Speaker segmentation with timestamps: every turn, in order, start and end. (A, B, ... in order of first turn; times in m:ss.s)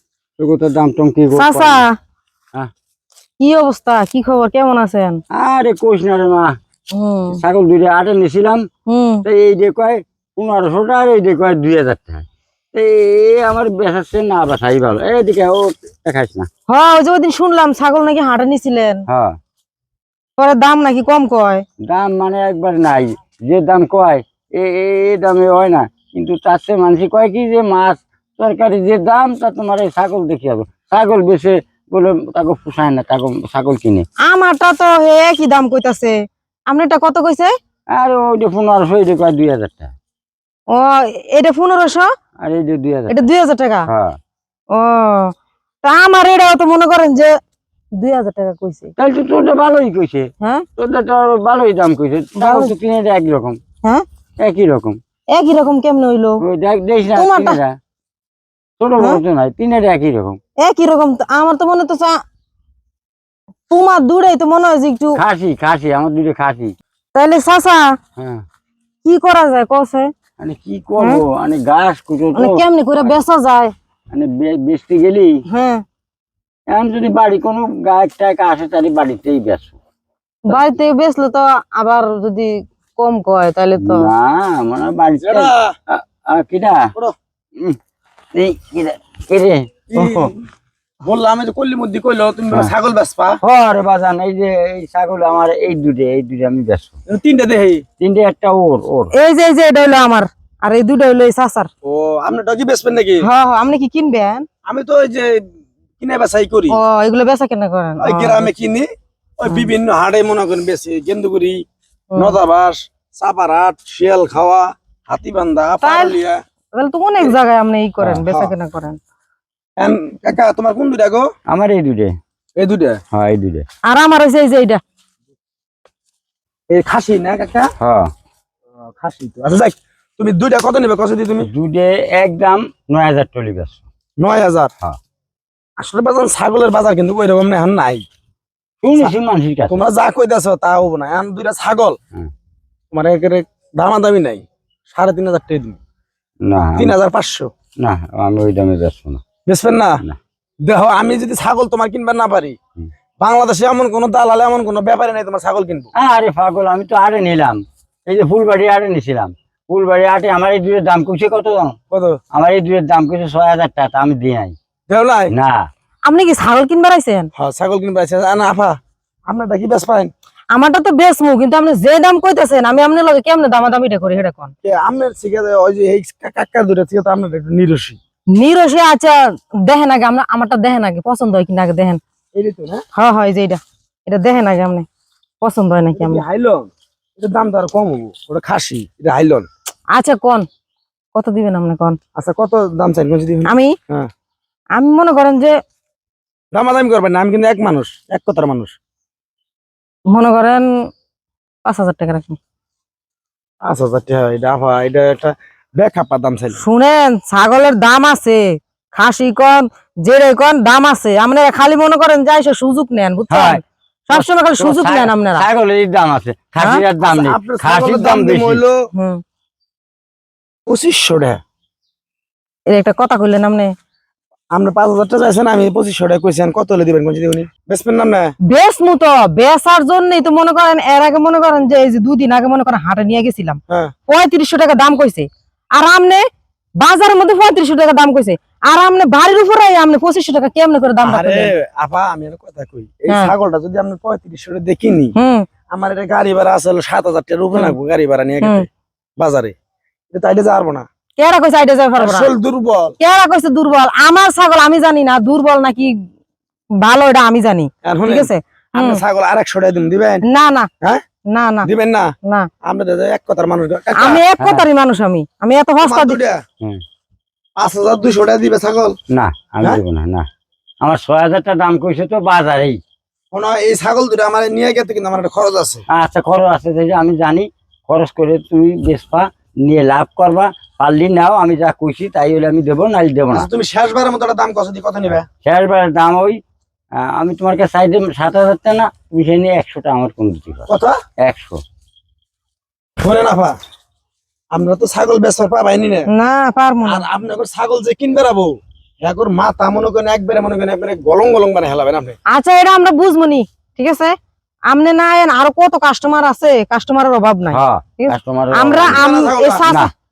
0:00.4-0:01.8 A
0:01.4-0:02.0 B
0:03.4-0:05.2 B
0:05.3-0:06.5 A
0:07.0-0:07.4 B
0:07.4-0:08.7 A
0:08.9-0:09.2 B
0:09.2-0:16.5 A
0:16.7-0:19.0 B
0:19.1-0:19.4 A
0:20.4-0:21.6 B
0:21.8-0:34.1 A
0:34.3-0:36.2 B
0:36.7-0:37.5 B
0:38.0-0:39.9 A
0:40.7-0:42.1 B
0:42.4-0:43.1 A
0:43.1-0:43.9 B
0:43.9-0:44.2 A
0:44.8-0:47.3 B
0:48.0-0:48.9 B
0:49.0-0:53.6 A
0:50.4-0:50.7 B
0:52.4-0:52.7 B
0:54.4-0:55.0 A
0:55.3-0:56.4 B
0:56.4-0:57.8 A
0:57.1-0:57.6 B
0:58.8-1:00.4 A
1:00.6-1:02.2 B
1:03.7-1:05.2 B
1:05.2-1:06.8 A
1:07.2-1:07.9 B
1:08.2-1:08.4 A
1:09.0-1:10.1 B
1:10.4-1:13.2 A
1:11.0-1:11.2 B
1:12.4-1:13.7 B
1:14.1-1:15.3 A
1:15.5-1:15.8 B
1:16.7-1:19.8 A
1:20.5-1:24.1 B
1:23.8-1:26.9 A
1:25.2-1:25.7 C
1:28.4-1:29.7 A
1:29.9-1:30.3 C
1:31.0-1:33.4 C
1:33.4-1:37.0 A
1:37.1-1:37.8 C
1:38.0-1:39.1 A
1:39.1-1:41.7 B
1:41.8-1:43.2 C
1:43.2-1:44.5 B
1:44.7-1:45.4 C
1:46.0-1:46.8 C
1:46.7-1:48.5 B
1:48.0-1:51.6 C
1:52.1-1:52.4 B
1:52.2-1:56.4 C
1:55.8-1:56.2 B
1:56.8-1:59.0 B
1:59.8-2:01.3 C
2:01.5-2:02.1 A
2:02.6-2:03.0 C
2:03.1-2:03.6 A
2:03.9-2:04.8 B
2:06.7-2:07.7 C
2:07.8-2:08.1 A
2:08.9-2:11.5 C
2:11.4-2:13.8 A
2:14.2-2:14.7 C
2:15.8-2:18.0 C
2:18.8-2:19.8 A
2:19.7-2:22.0 C
2:22.9-2:25.8 C
2:26.5-2:27.0 A
2:26.8-2:27.5 C
2:27.8-2:29.2 A
2:29.5-2:30.0 C
2:30.6-2:32.6 C
2:33.2-2:35.9 C
2:36.0-2:41.8 A
2:41.9-2:42.2 C
2:42.3-2:44.6 A
2:44.9-2:45.3 C
2:45.3-2:45.6 A
2:46.1-2:47.3 B
2:47.4-2:48.8 C
2:49.3-2:50.1 C
2:50.5-2:54.5 B
2:54.6-2:58.0 C
2:58.4-3:02.0 B
3:02.4-3:02.8 C
3:03.0-3:04.9 B
3:05.4-3:06.2 B
3:05.9-3:09.5 C
3:09.9-3:10.5 B
3:11.2-3:12.0 B
3:12.2-3:14.1 C
3:13.4-3:13.7 B
3:14.8-3:15.6 B
3:16.5-3:18.7 C
3:20.1-3:20.7 B
3:21.6-3:22.4 B
3:23.6-3:26.6 C
3:26.6-3:28.4 B
3:28.9-3:35.5 B
3:33.3-3:38.6 A
3:37.0-3:38.8 C
3:39.0-3:39.2 B
3:40.7-3:41.4 C
3:42.7-3:43.7 B
3:44.5-3:48.3 C
3:48.5-3:56.2 B
3:56.8-4:01.5 B
4:01.0-4:05.1 C
4:05.2-4:05.5 B
4:05.7-4:08.7 C
4:08.4-4:08.7 B
4:09.2-4:09.5 C
4:10.1-4:10.9 C
4:11.2-4:12.3 B
4:12.0-4:13.0 C
4:13.0-4:15.9 B
4:16.8-4:19.0 B
4:17.8-4:20.2 C
4:20.3-4:20.7 B
4:21.3-4:21.7 B
4:21.6-4:22.1 C
4:22.6-4:24.2 C
4:24.0-4:26.2 B
4:25.8-4:26.4 C
4:27.6-4:29.0 C
4:29.1-4:30.3 A
4:30.8-4:32.8 A
4:33.3-4:35.8 C
4:35.9-4:43.5 A
4:43.3-4:45.3 C
4:45.4-4:46.4 A
4:47.0-4:50.7 A
4:50.7-4:51.0 C
4:51.2-4:51.6 A
4:53.0-4:53.6 C
4:54.5-4:56.0 C
4:56.1-4:57.0 B
4:56.8-5:02.2 C
5:02.3-5:04.2 B
5:04.7-5:09.9 B
5:07.5-5:09.0 A
5:08.8-5:09.7 C